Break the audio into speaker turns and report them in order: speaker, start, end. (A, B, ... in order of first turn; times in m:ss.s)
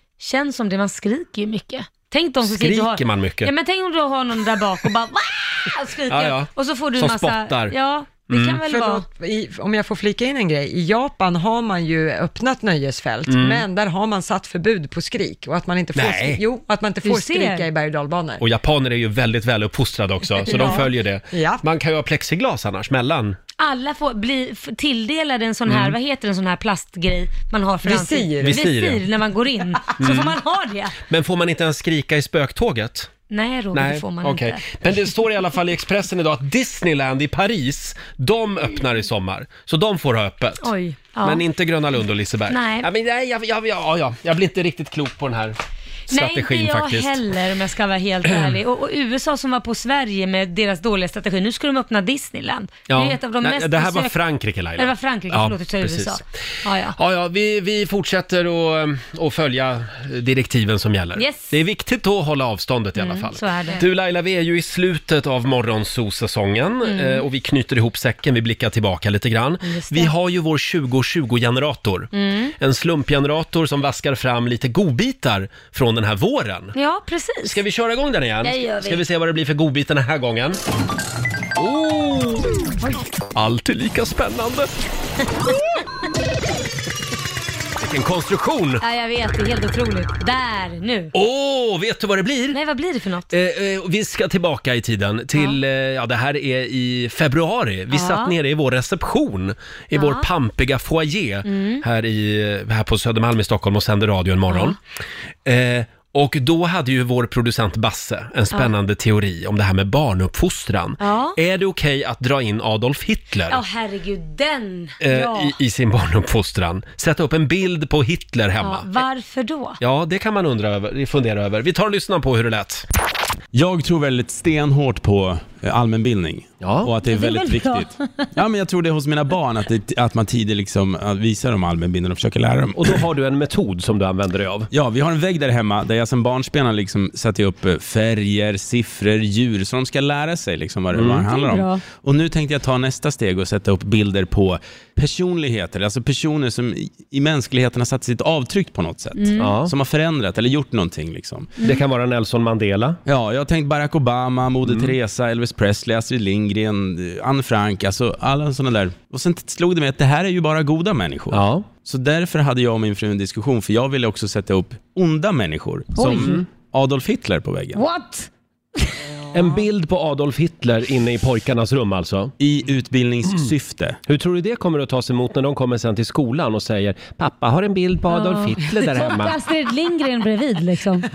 0:00.2-0:09.0 A
0:02.4-0:03.5 B
0:06.1-0:07.7 B
0:08.3-0:08.6 B
0:08.7-0:18.4 C
0:13.3-0:13.6 B
0:15.9-0:16.4 B
0:17.0-0:17.7 A
0:18.4-0:23.4 B
0:20.4-0:21.6 C
0:20.5-0:20.8 A
0:23.6-0:31.0 A
0:25.7-0:25.9 B
0:27.8-0:28.6 C
0:28.4-0:29.0 B
0:30.0-0:30.3 B
0:31.1-0:33.1 B
0:33.3-0:34.8 A
0:33.7-0:40.7 B
0:40.6-0:41.4 A
0:41.2-0:45.6 B
0:42.5-0:42.9 A
0:46.1-0:47.2 B
0:46.1-0:54.2 A
0:48.3-0:48.5 B
0:52.9-0:56.2 B
0:54.8-0:57.0 A
0:56.9-1:16.7 B
1:01.2-1:01.5 A
1:03.0-1:03.8 A
1:06.8-1:07.2 A
1:09.6-1:10.1 A
1:12.1-1:12.5 A
1:16.7-1:17.6 A
1:17.4-1:20.6 B
1:18.4-1:19.0 A
1:21.6-1:22.5 B
1:23.3-1:24.7 B
1:27.8-1:28.8 B
1:28.8-1:31.1 A
1:31.1-1:32.6 B
1:32.5-1:33.3 A
1:33.3-1:44.8 B
1:35.3-1:35.6 A
1:37.9-1:38.3 A
1:39.9-1:40.3 A
1:41.4-1:41.8 A
1:44.5-1:44.8 A
1:45.4-1:53.6 B
1:51.0-1:51.4 A
1:53.5-1:55.5 A
1:55.0-1:59.0 B
1:58.6-1:59.8 A
1:59.8-2:02.8 B
2:03.5-2:13.0 D
2:06.6-2:06.9 B
2:07.0-2:08.2 A
2:12.7-2:14.7 B
2:14.7-2:31.5 D
2:20.9-2:21.2 B
2:21.3-2:21.8 A
2:29.1-2:29.6 A
2:29.4-2:29.7 B
2:31.6-2:33.0 B
2:33.0-2:47.8 D
2:34.6-2:34.9 B
2:41.3-2:41.7 B
2:45.9-2:46.4 A
2:46.2-2:46.4 B
2:47.7-2:48.9 A
2:49.3-2:52.3 B
2:52.4-2:54.0 D
2:54.1-2:59.4 B
2:58.1-3:01.1 A